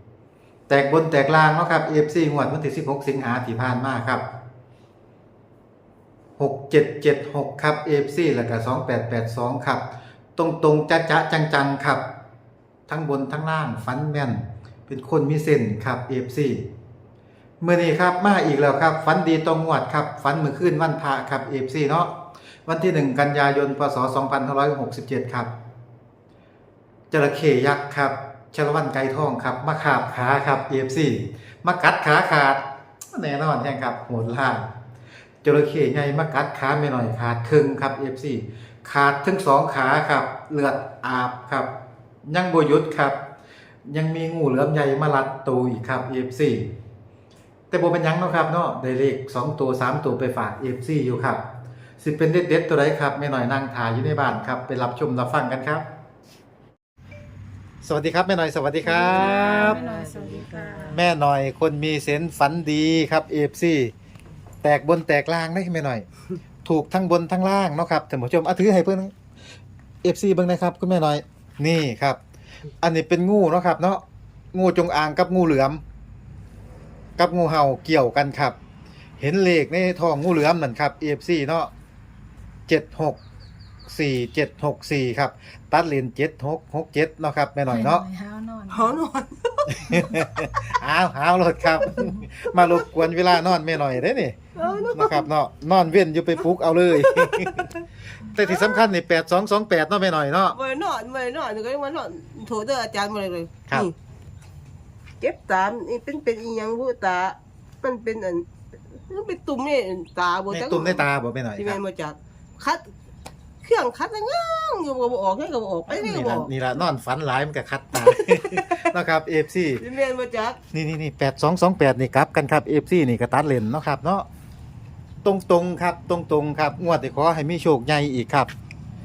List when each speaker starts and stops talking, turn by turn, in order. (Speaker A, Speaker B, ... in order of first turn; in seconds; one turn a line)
Speaker A: 0.7-4.2
Speaker A: 6.4-9.8
Speaker A: 10.4-12.0
Speaker A: 12.9-16.7
Speaker A: 17.6-22.1
Speaker A: 22.7-25.5
Speaker A: 27.1-32.6
Speaker A: 33.1-34.7
Speaker A: 35.4-41.7
Speaker A: 42.3-43.2
Speaker A: 43.9-46.7
Speaker A: 47.7-51.4
Speaker A: 52.0-55.9
Speaker A: 57.8-59.9
Speaker B: 58.9-61.0
Speaker C: 59.0-60.9
Speaker A: 60.9-63.9
Speaker A: 64.6-66.1
Speaker A: 66.7-69.1
Speaker A: 70.0-72.2
Speaker A: 72.8-74.0
Speaker A: 74.5-75.8
Speaker A: 77.2-78.6
Speaker A: 79.2-81.7
Speaker A: 82.7-83.2
Speaker A: 83.9-88.1
Speaker C: 87.7-89.0
Speaker B: 88.7-90.7
Speaker A: 89.7-94.4
Speaker B: 91.8-92.9
Speaker B: 94.6-95.3
Speaker A: 94.9-97.7
Speaker B: 96.9-97.8
Speaker A: 98.2-100.6
Speaker B: 98.4-98.8
Speaker B: 100.5-103.9
Speaker B: 105.2-111.1
Speaker A: 110.5-111.8
Speaker B: 111.6-112.9
Speaker B: 113.6-116.5
Speaker A: 115.9-119.8
Speaker B: 118.0-118.9
Speaker B: 119.8-120.6
Speaker A: 120.7-124.3
Speaker A: 125.2-128.5